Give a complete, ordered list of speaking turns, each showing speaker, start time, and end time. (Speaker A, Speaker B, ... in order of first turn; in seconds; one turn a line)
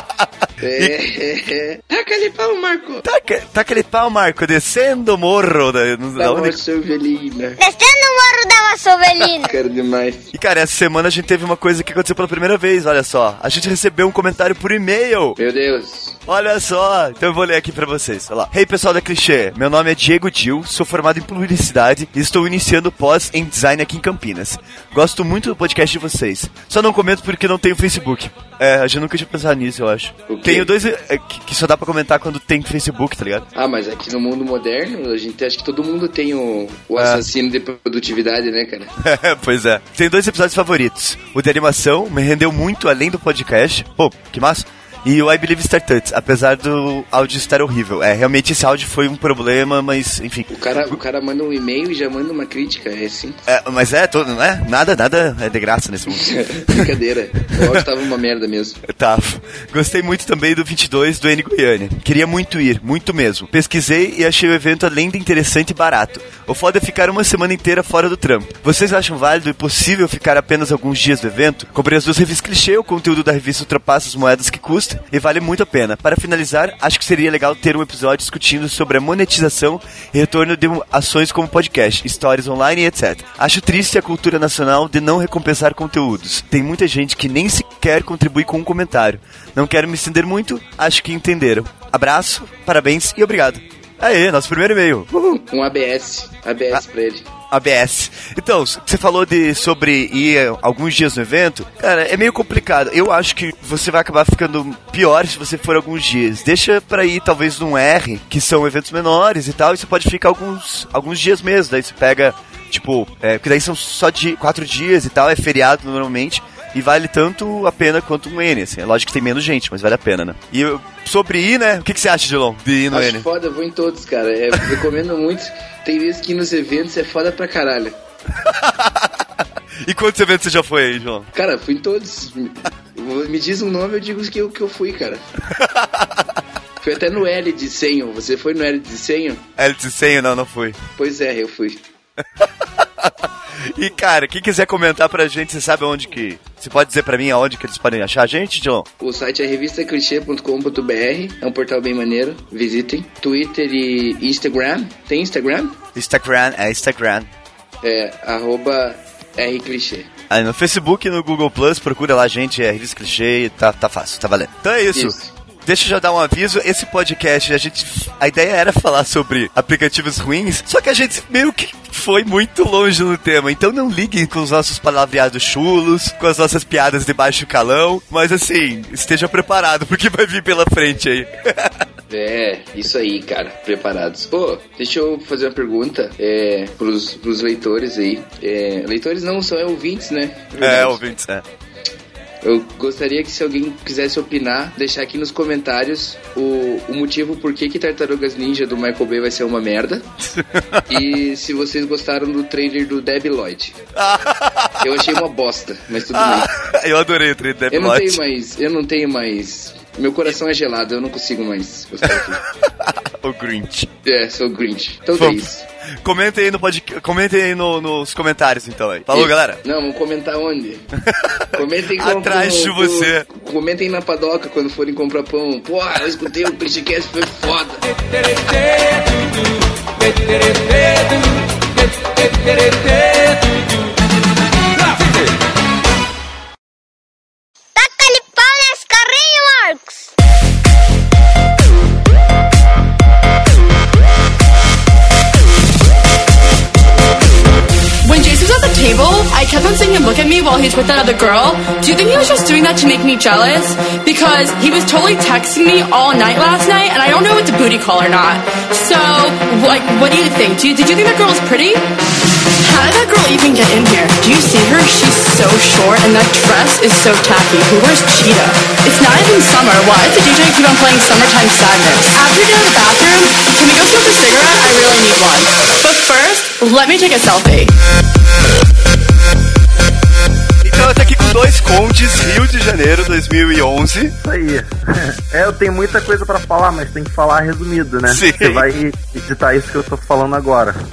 Speaker A: 0.6-3.0
Speaker B: 3.0-6.6
Speaker A: 6.2-7.6
Speaker C: 7.6-9.6
Speaker A: 9.3-10.3
Speaker B: 10.3-15.4
Speaker A: 15.4-16.2
Speaker B: 16.3-33.5
Speaker A: 30.3-30.7
Speaker A: 33.5-38.9
Speaker B: 37.0-37.2
Speaker B: 39.0-51.0
Speaker A: 50.5-53.4
Speaker B: 53.5-56.8
Speaker A: 56.2-58.8
Speaker B: 58.8-95.4
Speaker A: 95.4-97.2
Speaker B: 97.5-123.2
Speaker A: 122.9-128.0
Speaker B: 128.4-129.1
Speaker B: 129.8-131.3
Speaker A: 131.3-135.2
Speaker B: 135.6-136.2
Speaker A: 136.8-139.4
Speaker B: 139.6-140.8
Speaker A: 141.0-141.8
Speaker B: 143.7-148.9
Speaker A: 149.0-155.8
Speaker B: 155.9-157.3
Speaker A: 157.8-160.1
Speaker B: 160.3-181.7
Speaker A: 164.9-165.3
Speaker A: 182.1-191.0
Speaker B: 190.6-191.4
Speaker A: 192.4-200.1
Speaker B: 200.3-200.8
Speaker A: 200.9-203.8
Speaker B: 204.0-204.8
Speaker A: 204.8-206.5
Speaker B: 206.2-208.2
Speaker A: 207.7-212.4
Speaker B: 212.8-213.9
Speaker A: 214.0-215.7
Speaker B: 215.1-215.4
Speaker B: 216.0-219.6
Speaker A: 219.1-220.9
Speaker B: 221.0-223.3
Speaker A: 221.5-227.8
Speaker A: 230.2-231.1
Speaker C: 237.8-240.1
Speaker D: 248.0-261.9
Speaker D: 262.6-277.8
Speaker B: 280.6-284.1
Speaker E: 284.2-290.7
Speaker B: 288.1-288.7